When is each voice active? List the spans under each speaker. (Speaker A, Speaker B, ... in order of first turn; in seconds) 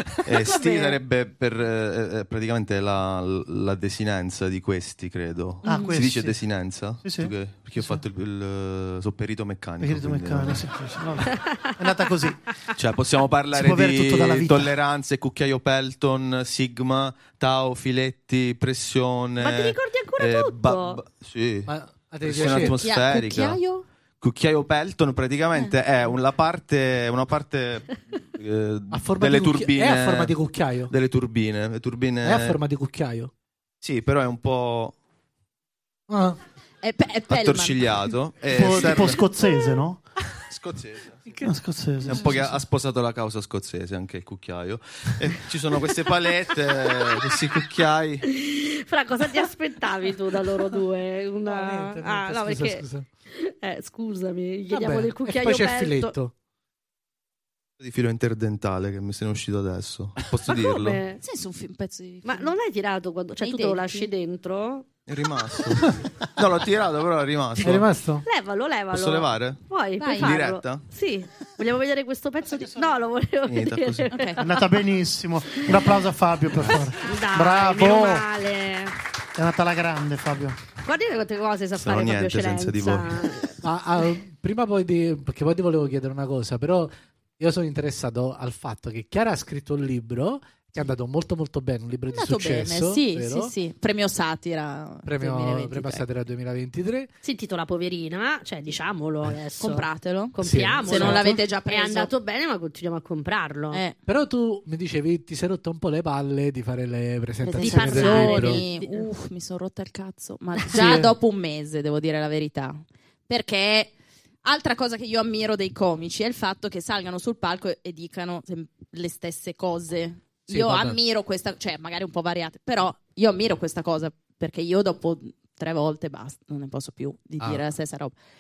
Speaker A: 0.1-0.5, 21.7-22.8, 28.9-30.9, 32.2-33.3, 36.1-36.4, 41.3-41.5, 42.1-42.5, 51.5-53.1, 54.7-56.3, 67.6-68.2, 83.6-93.5, 95.1-97.1, 100.4-101.4, 104.1-108.6, 110.7-111.1, 120.5-121.0
Speaker B: 0.2-10.7, 12.8-23.6, 24.2-30.4, 30.9-32.6, 33.8-35.0, 37.3-39.2, 40.4-41.4, 42.0-48.3, 57.8-61.0, 65.1-67.9, 68.9-69.6, 70.2-70.8, 73.5-74.1, 81.8-83.3
Speaker C: 0.7-1.0, 11.3-11.7, 19.4-21.0, 48.3-56.1, 60.7-61.2, 62.2-64.9, 68.2-74.7, 77.0-79.0, 80.8-83.6, 97.2-103.8, 107.5-109.1
Speaker D: 5.7-6.4, 7.0-8.0, 9.8-12.7, 13.5-14.7, 38.5-40.0, 41.4-42.5, 72.5-73.0, 74.4-78.3, 79.3-80.6
Speaker E: 22.4-23.9, 36.8-38.0, 61.2-62.5, 63.4-64.1, 70.0-70.4, 74.1-74.4, 92.1-96.0, 99.6-102.1, 103.7-104.0, 107.5-113.9, 114.4-128.2